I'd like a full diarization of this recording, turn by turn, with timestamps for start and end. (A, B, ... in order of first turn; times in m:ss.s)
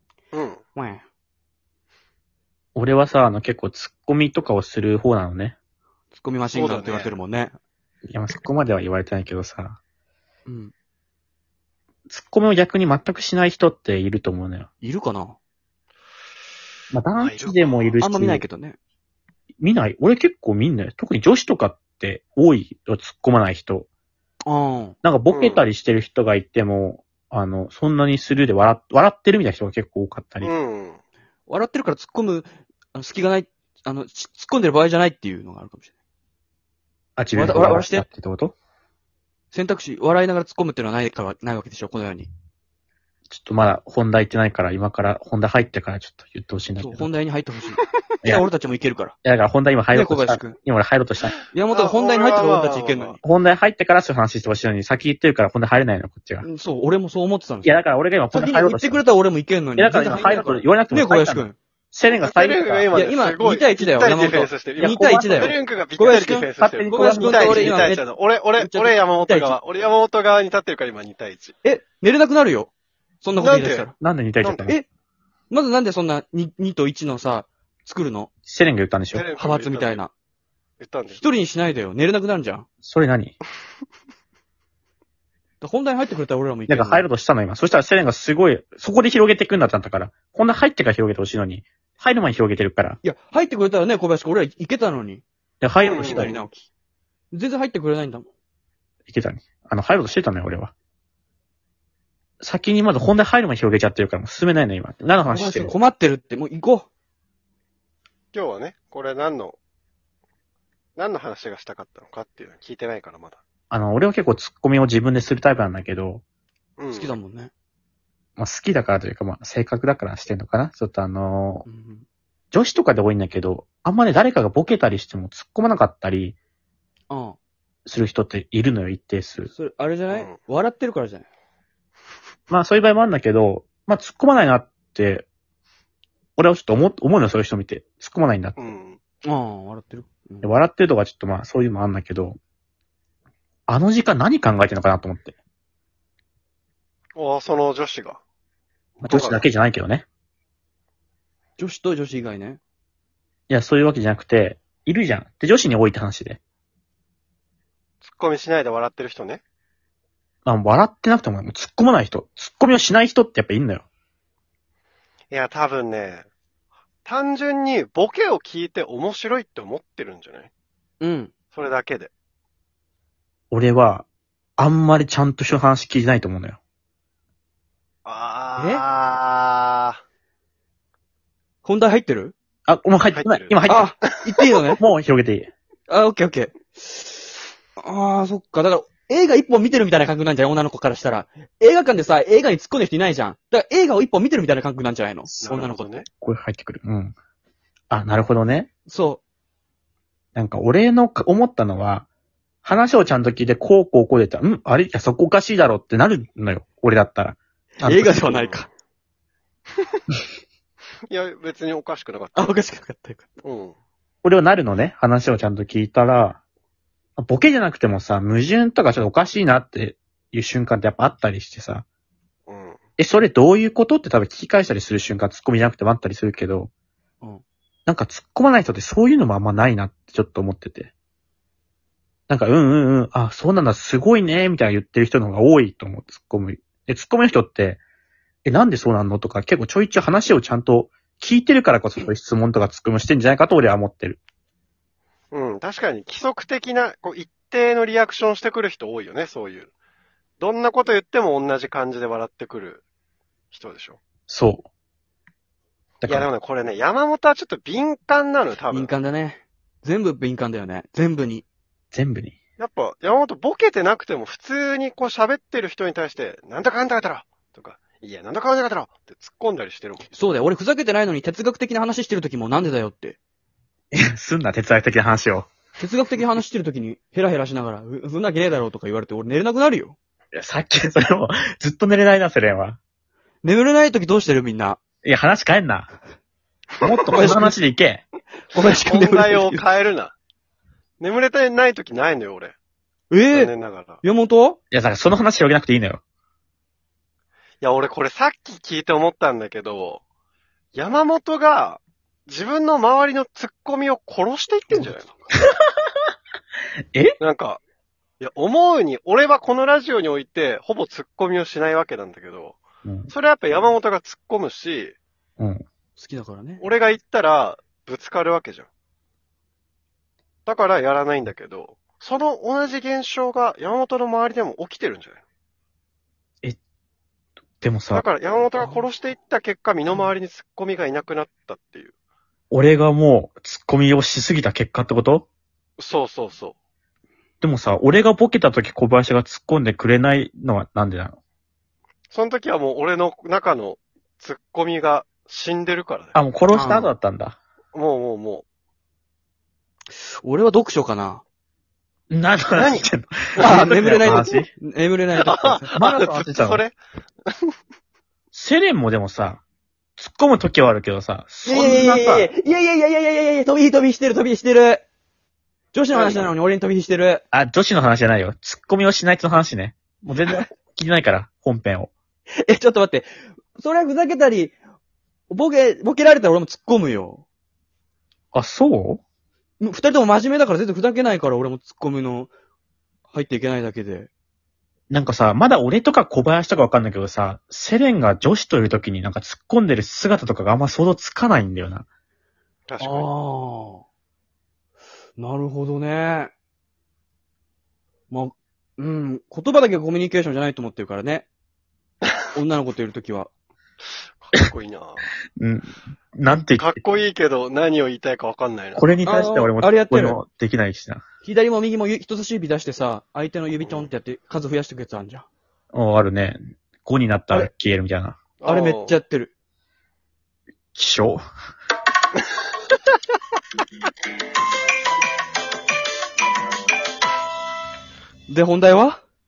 0:00.3-0:00.6 A
0:00.8-0:01.0 B
0:02.8-0:05.6 C
0:06.1-0:07.5 B
0:06.5-0:07.2 A
0:08.1-0:09.8 C
0:10.5-0:10.7 B
0:12.1-0:14.7 C
0:14.8-0:15.4 B
0:16.9-0:18.4 C
0:17.2-0:18.0 A
0:18.0-0:18.8 B
0:19.6-0:23.9 C
0:24.5-0:25.0 B
0:25.0-0:30.5 C
0:25.3-0:25.6 A
0:30.4-0:31.0 A
0:31.5-0:35.9 B
0:37.2-0:38.6 C
0:37.3-0:38.1 B
0:39.5-0:42.3 B
0:43.3-0:47.1 C
0:46.8-0:49.2 B
0:49.2-0:51.4 C
0:49.9-0:50.6 B
0:51.5-0:53.2 B
0:51.7-0:53.2 A
0:53.2-0:56.4 C
0:56.4-0:57.8 B
0:57.6-0:59.0 C
0:58.3-1:01.6 B
0:59.8-1:02.9 C
1:02.1-1:11.6 A
1:02.9-1:09.6 B
1:04.8-1:05.6 C
1:06.6-1:07.9 C
1:11.6-1:12.7 B
1:13.2-1:14.0 B
1:13.4-1:13.9 A
1:14.0-1:14.8 C
1:14.4-1:14.7 A
1:15.5-1:18.3 B
1:18.5-1:19.3 C
1:19.1-1:20.0 A
1:19.4-1:20.1 B
1:20.8-1:21.2 A
1:21.1-1:22.7 B
1:22.8-1:23.4 C
1:25.6-1:27.1 B
1:26.7-1:33.0 C
1:33.0-1:35.2 B
1:35.6-1:36.4 C
1:35.8-1:36.3 A
1:36.0-1:36.7 B
1:37.3-1:38.3 B
1:39.1-1:40.7 C
1:42.4-1:45.7 C
1:45.3-1:46.9 B
1:48.3-1:49.6 A
1:51.0-1:53.4 A
1:53.7-1:56.2 C
1:56.8-1:57.2 A
1:56.9-1:57.5 B
1:58.4-2:01.6 C
2:01.7-2:02.0 B
2:02.5-2:06.4 C
2:07.1-2:07.4 B
2:07.9-2:09.5 C
2:09.5-2:11.2 B
2:10.1-2:10.4 A
2:12.5-2:15.3 C
2:16.4-2:18.6 C
2:18.6-2:19.0 A
2:19.2-2:20.5 B
2:20.4-2:22.4 C
2:23.7-2:25.4 C
2:27.2-2:28.2 A
2:29.0-2:29.4 A
2:29.0-2:30.1 C
2:31.6-2:32.6 B
2:33.5-2:36.4 C
2:38.0-2:39.4 A
2:40.4-2:43.8 C
2:45.3-2:46.3 A
2:47.0-2:50.5 A
2:51.0-2:51.3 B
2:51.5-2:52.1 A
2:53.5-2:54.1 C
2:54.6-2:56.6 C
2:58.0-3:00.0 A
2:58.6-2:58.8 B
3:01.6-3:02.3 B
3:02.7-3:03.9 C
3:03.1-3:04.2 A
3:03.7-3:04.8 B
3:04.8-3:05.5 C
3:05.9-3:15.9 B
3:15.4-3:16.1 A
3:16.1-3:17.1 C
3:17.9-3:18.7 C
3:18.9-3:19.2 B
3:20.4-3:22.1 C
3:22.6-3:28.5 C
3:27.8-3:28.7 B
3:28.3-3:28.6 A
3:31.1-3:32.4 A
3:32.4-3:33.4 B
3:33.4-3:33.8 A
3:34.2-3:36.4 C
3:37.2-3:41.8 C
3:42.5-3:42.8 A
3:43.0-3:46.7 C
3:47.9-3:50.9 C
3:52.3-3:57.8 C
3:58.4-4:04.2 C
4:05.3-4:09.7 A
4:10.4-4:12.8 A
4:13.5-4:14.0 A
4:14.3-4:14.7 C
4:16.0-4:16.3 C
4:16.0-4:18.9 A
4:18.7-4:21.4 B
4:21.9-4:22.4 C
4:22.6-4:30.0 A
4:30.1-4:33.2 B
4:33.9-4:35.5 C
4:35.8-4:40.0 B
4:40.3-4:42.8 C
4:43.4-4:44.8 B
4:45.0-4:45.9 C
4:46.8-4:48.0 C
4:47.1-4:47.6 B
4:48.5-4:49.6 B
4:48.6-4:50.2 A
4:51.0-4:52.5 A
4:53.1-4:53.5 B
4:53.3-4:54.0 A
4:54.0-4:54.6 B
4:54.7-4:56.0 C
4:57.6-5:00.0 A
5:00.8-5:05.1 A
5:04.7-5:05.3 B
5:07.2-5:07.6 A
5:08.2-5:12.6 A
5:12.8-5:13.1 C
5:13.1-5:15.0 A
5:15.4-5:15.6 C
5:16.0-5:16.6 B
5:16.6-5:18.7 A
5:20.5-5:25.2 A
5:27.6-5:28.0 C
5:27.9-5:31.9 A
5:32.5-5:35.3 C
5:35.8-5:36.6 A
5:37.4-5:41.2 C
5:42.1-5:46.2 A
5:46.1-5:47.4 C
5:46.5-5:46.9 B
5:47.7-5:48.4 A
5:50.0-5:51.2 B
5:52.1-5:54.5 C
5:52.6-5:53.6 A
5:53.4-5:55.7 B
5:55.2-5:56.8 A
5:55.7-5:56.6 C
5:58.3-5:59.4 C
6:00.0-6:02.3 C
6:01.4-6:04.8 B
6:05.7-6:07.2 B
6:05.9-6:06.3 A
6:07.3-6:11.9 C
6:12.4-6:14.6 B
6:15.3-6:17.2 B
6:18.3-6:19.0 C
6:19.6-6:22.3 B
6:23.1-6:24.1 B
6:24.9-6:31.8 C
6:32.7-6:33.1 A
6:32.8-6:33.8 B
6:35.2-6:36.3 B
6:38.1-6:41.3 B
6:42.3-6:43.3 B
6:44.2-6:45.0 A
6:45.4-6:46.8 C
6:46.6-6:48.9 A
6:48.8-6:51.0 C
6:49.0-6:50.2 B
6:51.2-6:55.3 B
6:53.6-6:53.9 A
6:55.7-6:58.2 C
6:58.4-6:58.9 A
6:58.5-6:59.3 B
7:00.7-7:01.2 C
7:08.3-7:09.0 B